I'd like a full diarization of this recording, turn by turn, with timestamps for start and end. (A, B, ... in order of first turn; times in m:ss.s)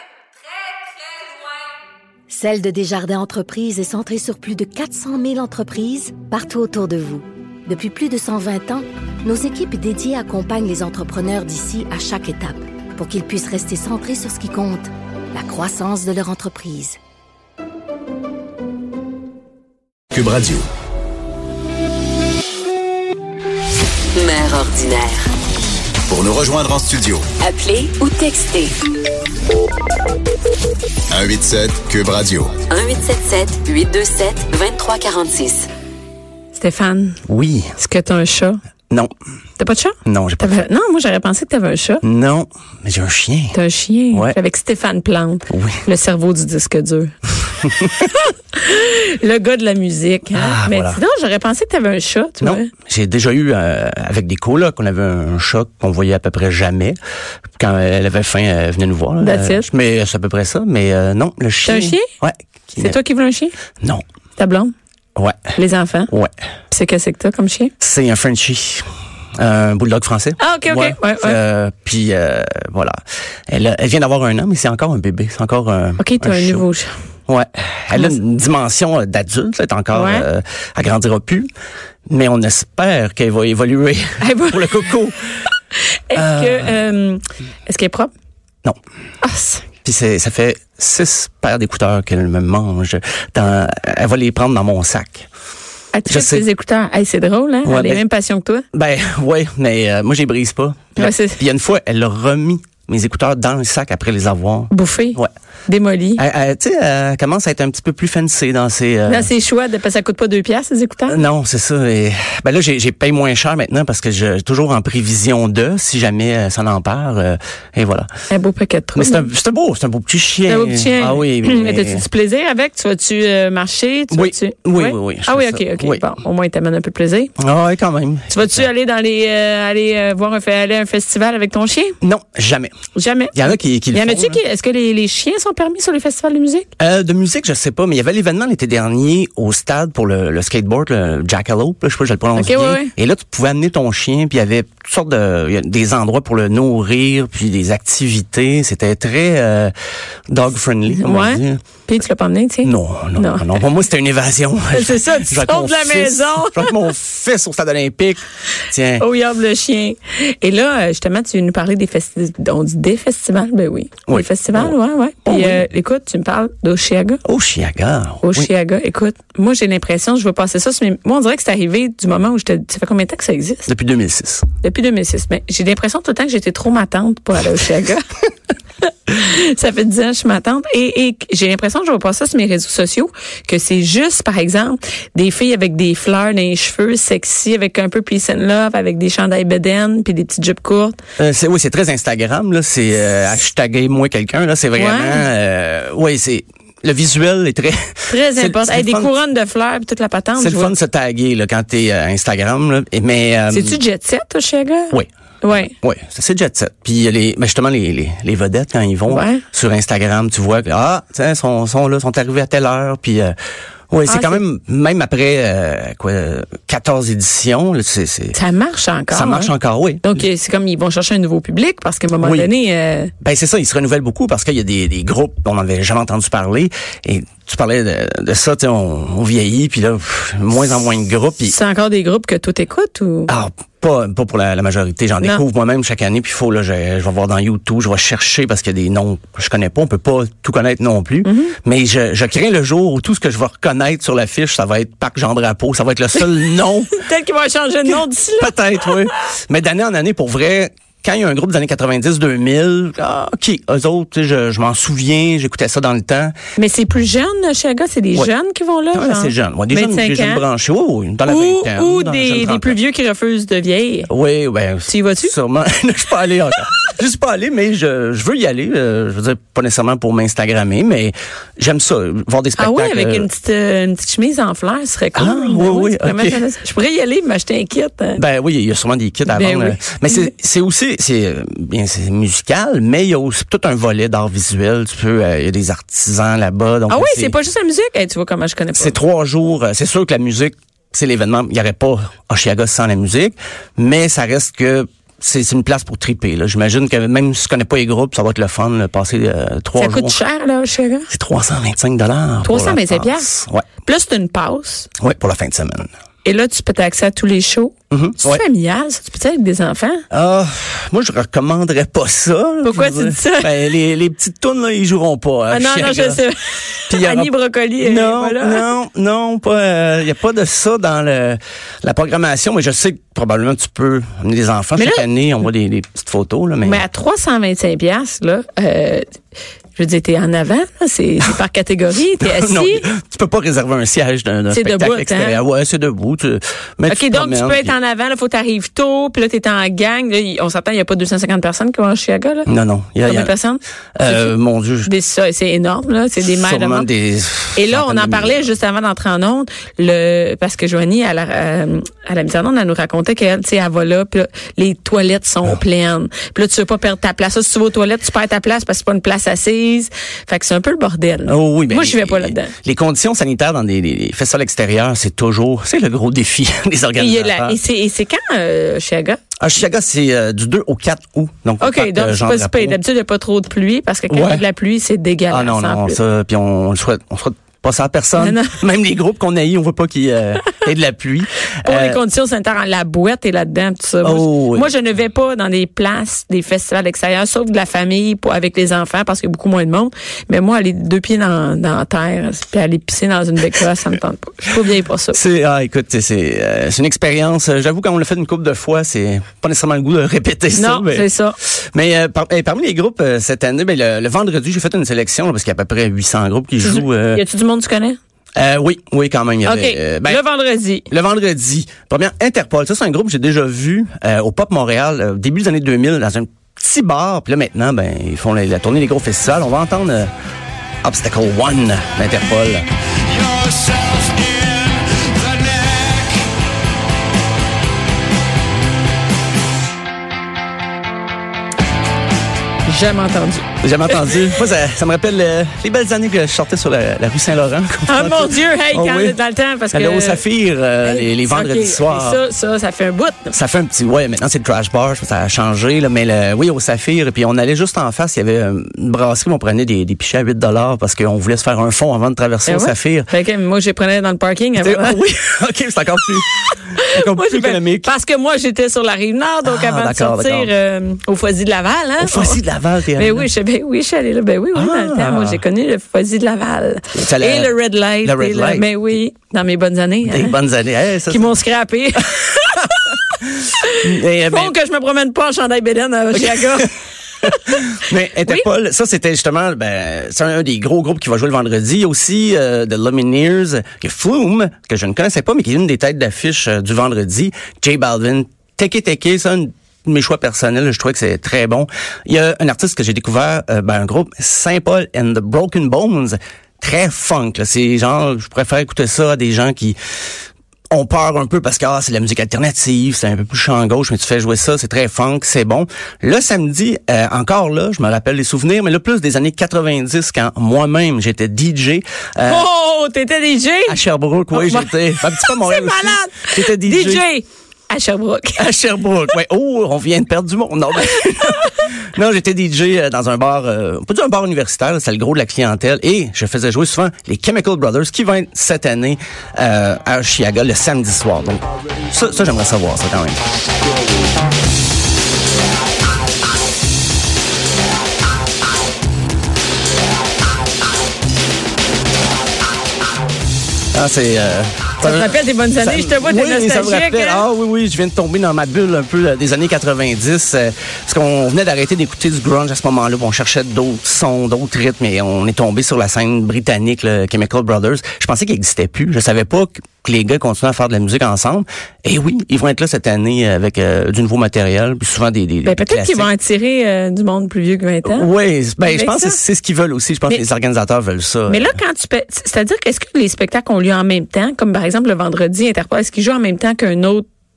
0:02.3-0:17.0 A
0:20.1-0:20.7 B
0:24.1-0:25.2 C
0:26.1-0:27.3 B
0:27.4-0:28.7 C
0:31.1-0:32.6 B
0:32.7-0:35.7 C
0:36.5-0:37.2 D
0:37.3-0:37.7 E
0:37.8-0:38.6 D
0:39.6-0:42.0 D
0:40.0-0:40.7 E
0:42.0-0:43.6 E
0:43.5-0:47.1 D
0:45.5-0:45.8 E
0:47.6-0:48.1 E
0:47.9-0:52.7 D
0:50.3-0:51.0 E
0:52.4-0:57.0 E
0:57.6-1:03.0 E
0:59.2-0:59.7 D
1:01.6-1:02.1 D
1:02.8-1:03.6 D
1:04.4-1:04.7 D
1:05.5-1:06.1 D
1:06.7-1:07.7 D
1:07.8-1:08.8 E
1:09.4-1:13.0 E
1:10.4-1:11.4 D
1:13.5-1:16.6 E
1:16.0-1:16.9 D
1:17.3-1:21.5 E
1:19.9-1:20.2 D
1:22.1-1:25.2 E
1:24.2-1:24.9 D
1:25.7-1:28.1 D
1:26.1-1:26.7 E
1:29.2-1:29.7 D
1:29.8-1:35.3 E
1:35.9-1:38.6 D
1:36.0-1:36.4 E
1:37.6-1:38.0 E
1:38.7-1:45.3 E
1:40.9-1:41.4 D
1:44.7-1:46.2 D
1:46.2-1:49.3 E
1:49.0-1:51.2 D
1:51.1-1:58.1 E
1:58.3-1:59.3 D
1:58.9-2:02.0 E
2:00.4-2:07.3 D
2:04.1-2:06.0 E
2:07.4-2:08.7 E
2:08.3-2:12.0 D
2:12.0-2:12.7 E
2:12.9-2:16.7 D
2:13.3-2:14.4 E
2:16.8-2:29.7 E
2:22.3-2:22.9 D
2:30.3-2:31.6 E
2:30.9-2:33.6 D
2:32.6-2:39.0 E
2:34.7-2:36.8 D
2:39.0-2:47.2 D
2:44.1-2:45.6 E
2:47.2-2:48.5 E
2:48.2-2:53.7 D
2:53.7-2:54.4 E
2:54.6-2:58.1 D
2:58.8-3:11.0 D
3:11.2-3:19.1 E
3:14.7-3:15.3 D
3:18.1-3:20.7 D
3:20.4-3:23.8 E
3:23.5-3:25.7 D
3:25.6-3:33.3 E
3:29.1-3:29.4 D
3:33.9-3:38.4 E
3:34.0-3:34.4 D
3:38.3-3:43.1 D
3:39.1-3:40.1 E
3:42.2-3:42.5 E
3:43.2-3:51.6 E
3:51.5-3:53.3 D
3:53.3-4:07.0 E
4:01.2-4:01.5 D
4:06.9-4:09.1 D
4:07.9-4:16.3 E
4:16.6-4:20.4 D
4:18.9-4:22.8 E
4:21.2-4:24.1 D
4:24.1-4:33.3 E
4:24.8-4:25.3 D
4:32.6-4:38.2 D
4:35.1-4:36.4 E
4:38.2-4:47.3 E
4:39.3-4:40.3 D
4:46.9-4:49.0 D
4:48.7-5:00.2 E
4:59.8-5:01.1 D
5:01.1-5:03.6 E
5:02.4-5:04.9 D
5:05.0-5:05.9 E
5:06.2-5:10.0 D
5:07.9-5:08.4 E
5:10.1-5:16.2 E
5:12.6-5:13.7 D
5:15.5-5:18.7 D
5:16.9-5:26.8 E
5:24.8-5:25.1 D
5:26.6-5:29.0 D
5:29.8-5:32.9 D
5:32.2-5:37.7 E
5:34.5-5:35.4 D
5:36.9-5:42.5 D
5:42.4-5:43.3 E
5:43.0-5:46.9 D
5:44.0-5:44.9 E
5:46.2-5:48.4 E
5:47.5-6:02.5 D
6:01.2-6:07.6 E
6:07.0-6:09.2 D
6:09.4-6:12.8 E
6:11.6-6:16.0 D
6:14.1-6:14.5 E
6:15.3-6:22.0 E
6:18.2-6:18.6 D
6:21.6-6:35.2 D
6:24.0-6:24.7 E
6:35.1-6:41.1 E
6:40.5-6:41.4 D
6:41.7-6:47.2 E
6:46.6-6:48.0 D
6:48.4-6:50.2 E
6:49.4-6:50.9 D
6:50.9-7:00.1 E
7:00.8-7:02.7 E
7:12.6-7:14.2 D
7:13.6-7:19.2 E
7:17.9-7:20.2 D
7:19.7-7:22.2 E
7:20.8-7:23.3 D
7:23.3-7:33.1 E
7:32.4-7:35.0 D
7:34.6-7:37.9 E
7:36.6-7:42.4 D
7:39.4-7:40.5 E
7:42.0-7:43.3 E
7:42.9-7:50.4 D
7:44.5-7:45.4 E
7:46.9-7:48.6 E
7:50.0-7:51.3 E
7:51.1-7:58.5 D
7:53.2-7:54.5 E
7:56.1-7:56.7 E
7:57.2-8:19.8 E
8:20.7-8:32.5 E
8:32.3-8:33.8 D
8:33.7-8:37.0 E
8:34.3-8:38.4 D
8:38.4-8:53.2 E
8:40.9-8:41.7 D
9:03.7-9:26.1 E
9:04.8-9:07.2 D
9:25.4-9:28.1 D
9:27.8-9:31.6 E
9:28.6-9:29.2 D
9:31.3-9:37.1 D